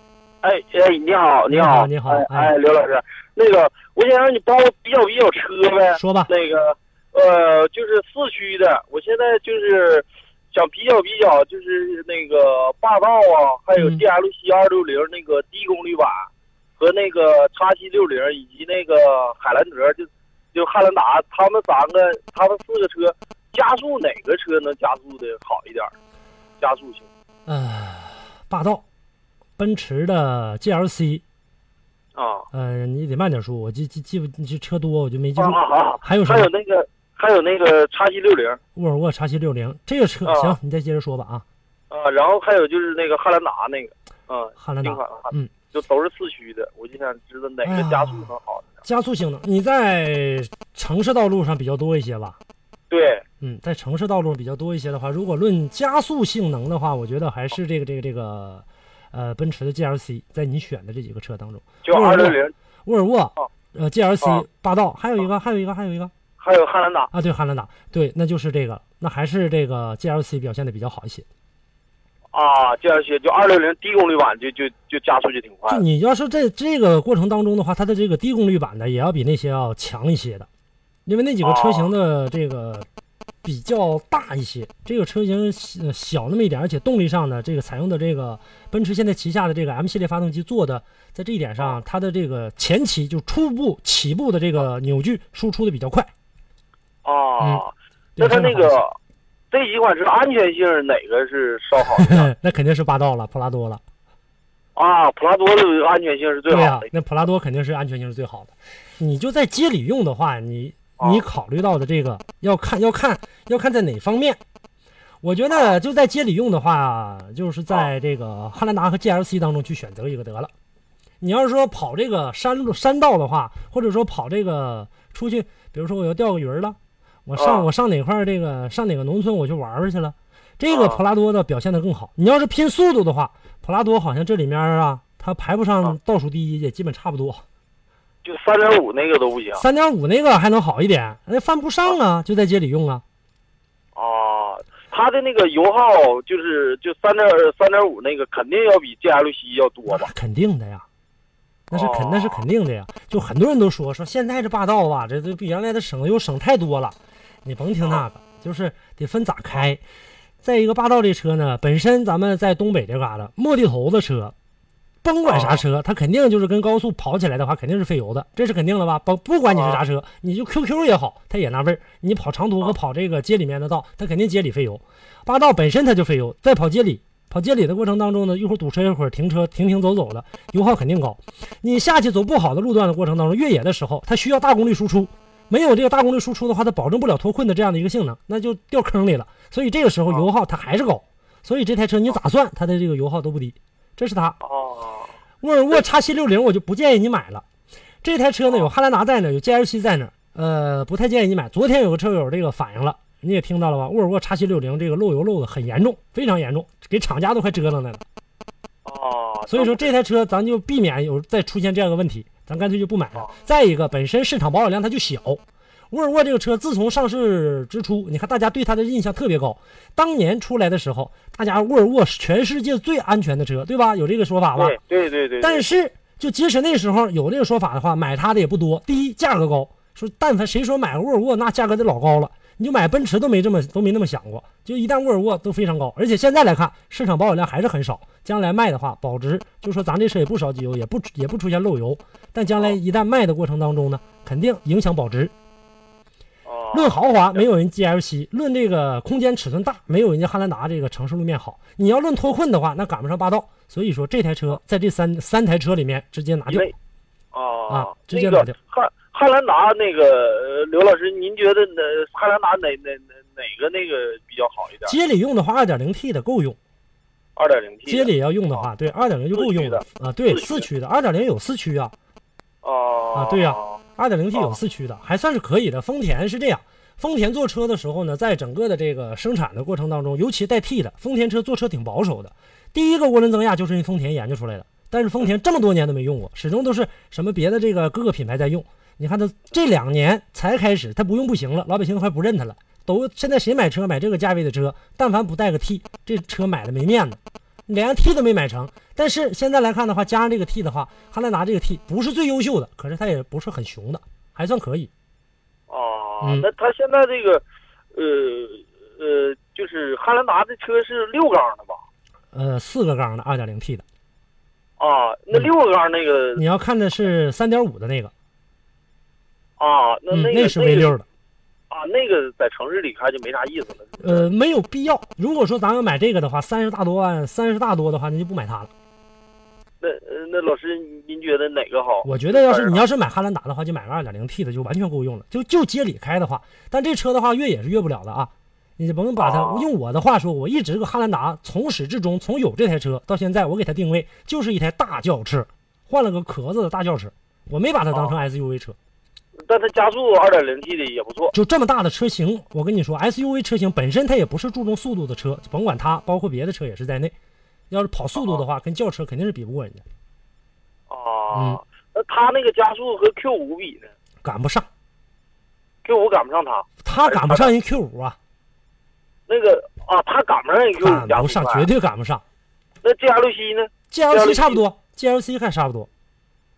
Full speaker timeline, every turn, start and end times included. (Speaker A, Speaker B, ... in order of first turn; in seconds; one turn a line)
Speaker A: 0.4-25.9
Speaker B: 1.5-2.5
Speaker B: 5.9-6.3
Speaker B: 13.8-14.0
Speaker A: 26.6-27.1
Speaker B: 27.5-28.8
Speaker B: 29.6-31.2
Speaker A: 32.1-32.5
Speaker B: 32.5-36.5
Speaker A: 35.4-38.6
Speaker B: 38.7-41.4
Speaker A: 40.2-40.6
Speaker A: 41.9-48.8
Speaker B: 44.6-45.5
Speaker B: 47.6-48.3
Speaker B: 48.8-52.4
Speaker A: 52.9-53.2
Speaker B: 53.4-66.1
Speaker A: 61.8-62.5
Speaker A: 66.4-67.1
Speaker B: 67.1-71.2
Speaker A: 72.3-75.8
Speaker B: 75.7-80.5
Speaker B: 81.0-82.8
Speaker A: 81.4-81.9
Speaker B: 83.4-96.1
Speaker A: 97.0-98.9
Speaker B: 98.2-98.8
Speaker A: 99.5-102.3
Speaker B: 101.8-103.8
Speaker A: 104.8-106.9
Speaker B: 106.5-114.4
Speaker A: 111.0-111.2
Speaker B: 115.2-120.5
Speaker A: 115.5-115.8
Speaker B: 121.2-137.4
Speaker A: 127.4-127.7
Speaker A: 130.7-131.0
Speaker A: 138.2-139.6
Speaker B: 139.6-143.0
Speaker A: 143.9-150.1
Speaker B: 149.9-150.8
Speaker B: 151.7-159.8
Speaker A: 151.7-152.4
Speaker B: 160.4-164.3
Speaker B: 165.0-194.4
Speaker A: 165.2-165.6
Speaker A: 169.5-169.8
Speaker A: 194.4-195.1
Speaker B: 195.4-197.4
Speaker B: 198.0-208.0
Speaker A: 208.8-210.0
Speaker B: 209.5-224.8
Speaker A: 224.6-225.7
Speaker B: 225.4-245.3
Speaker A: 246.4-247.4
Speaker B: 246.7-256.7
Speaker A: 257.3-264.9
Speaker B: 257.7-258.5
Speaker B: 264.8-266.6
Speaker A: 267.4-268.6
Speaker B: 267.9-271.9
Speaker A: 269.3-270.6
Speaker A: 272.6-273.8
Speaker B: 273.1-304.9
Speaker A: 305.7-307.4
Speaker B: 306.2-306.5
Speaker A: 307.9-311.8
Speaker B: 312.3-313.8
Speaker A: 314.8-316.4
Speaker B: 316.3-318.1
Speaker A: 319.6-320.9
Speaker B: 320.1-321.0
Speaker A: 321.7-324.3
Speaker B: 324.0-328.7
Speaker A: 329.8-332.8
Speaker B: 332.0-348.8
Speaker A: 339.2-339.7
Speaker A: 349.4-351.3
Speaker B: 351.3-357.1
Speaker B: 357.7-359.8
Speaker A: 360.9-363.9
Speaker B: 361.3-361.6
Speaker B: 364.2-364.7
Speaker A: 365.8-367.5
Speaker B: 366.8-368.1
Speaker A: 369.3-371.7
Speaker B: 370.8-372.2
Speaker A: 372.8-374.6
Speaker B: 373.9-375.9